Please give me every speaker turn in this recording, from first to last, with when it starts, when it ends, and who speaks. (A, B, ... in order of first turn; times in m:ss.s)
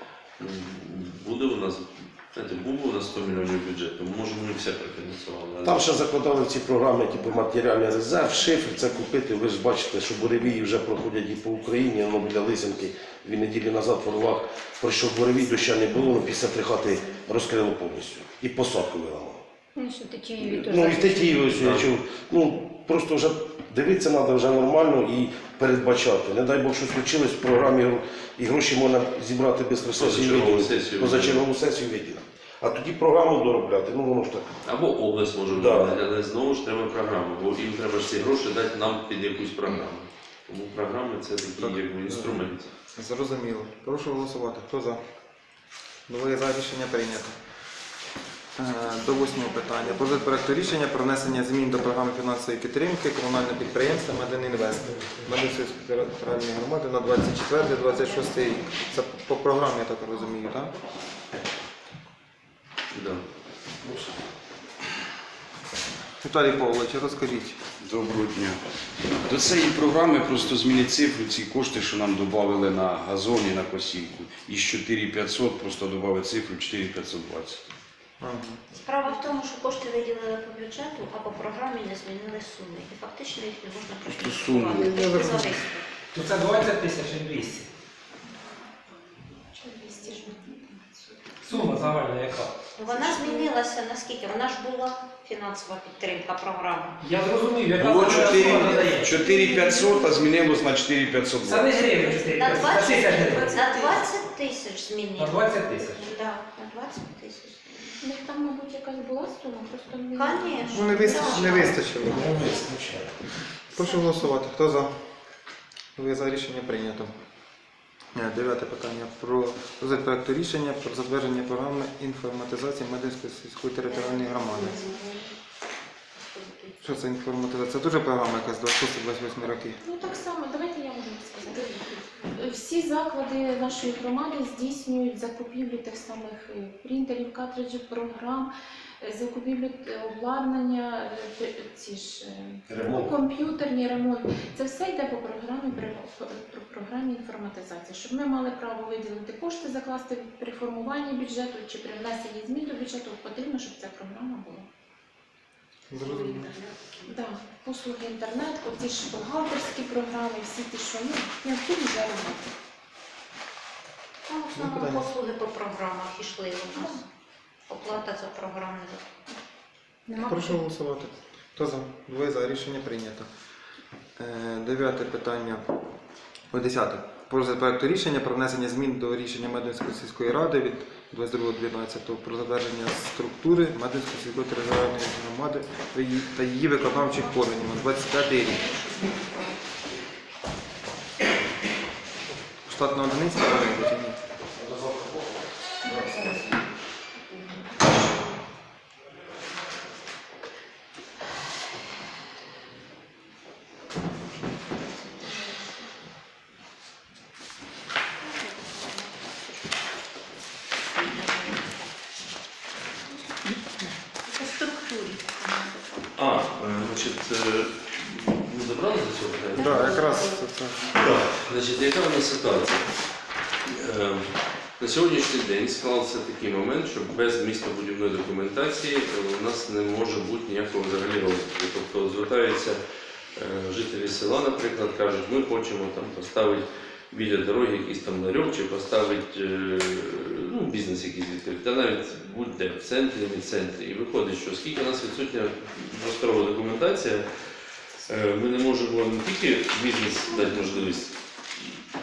0:00.4-0:05.8 A
0:05.6-0:19.4 B
0:19.7-0:21.5 C
0:20.4-0:34.5 B
0:21.6-0:21.9 A
0:30.0-0:31.4 A
0:34.6-0:42.6 A
0:35.5-0:36.0 B
0:41.6-0:45.0 D
0:46.1-0:47.4 D
0:48.6-1:00.7 D
0:54.8-0:55.3 E
1:02.9-1:03.2 A
1:03.8-1:04.1 B
1:06.2-1:07.6 D
1:07.8-1:08.6 F
1:09.2-1:17.7 F
1:18.2-1:18.6 D
1:18.7-1:25.9 G
1:24.1-1:25.5 F
1:24.9-1:25.5 D
1:26.1-1:27.7 E
1:29.5-1:31.7 H
1:31.4-1:32.5 E
1:32.8-1:37.0 G
1:32.9-1:33.4 H
1:37.0-1:39.3 E
1:37.7-1:41.8 F
1:41.4-1:43.8 E
1:42.1-1:48.0 G
1:43.7-1:43.9 C
1:45.2-1:46.1 E
1:48.0-1:51.9 H
1:50.1-1:51.8 G
1:50.7-1:52.5 D
1:52.0-1:53.2 B
1:53.7-1:55.0 D
1:56.0-1:57.1 D
1:58.1-2:04.8 D
2:03.9-2:05.3 G
2:06.2-2:06.9 G
2:06.8-2:09.8 D
2:09.8-2:11.7 H
2:12.3-2:18.5 H
2:19.0-2:34.7 H
2:22.7-2:23.1 B
2:35.9-2:36.5 D
2:36.0-2:36.5 C
2:37.0-2:42.5 H
2:44.3-2:47.0 G
2:44.5-2:45.1 D
2:47.7-2:49.1 G
2:50.1-2:50.6 C
2:50.1-2:53.3 D
2:54.2-2:55.6 D
2:56.5-3:08.7 D
3:06.8-3:09.6 G
3:12.6-3:14.2 D
3:14.5-3:16.2 B
3:15.9-3:16.4 G
3:28.2-3:29.9 G
3:31.0-3:31.8 G
3:34.2-3:36.1 G
3:36.2-3:40.2 A
3:39.5-3:41.0 D
3:40.9-3:42.8 A
3:43.6-3:44.2 A
3:44.8-3:52.8 A
3:53.4-4:07.2 A
4:08.0-4:11.8 A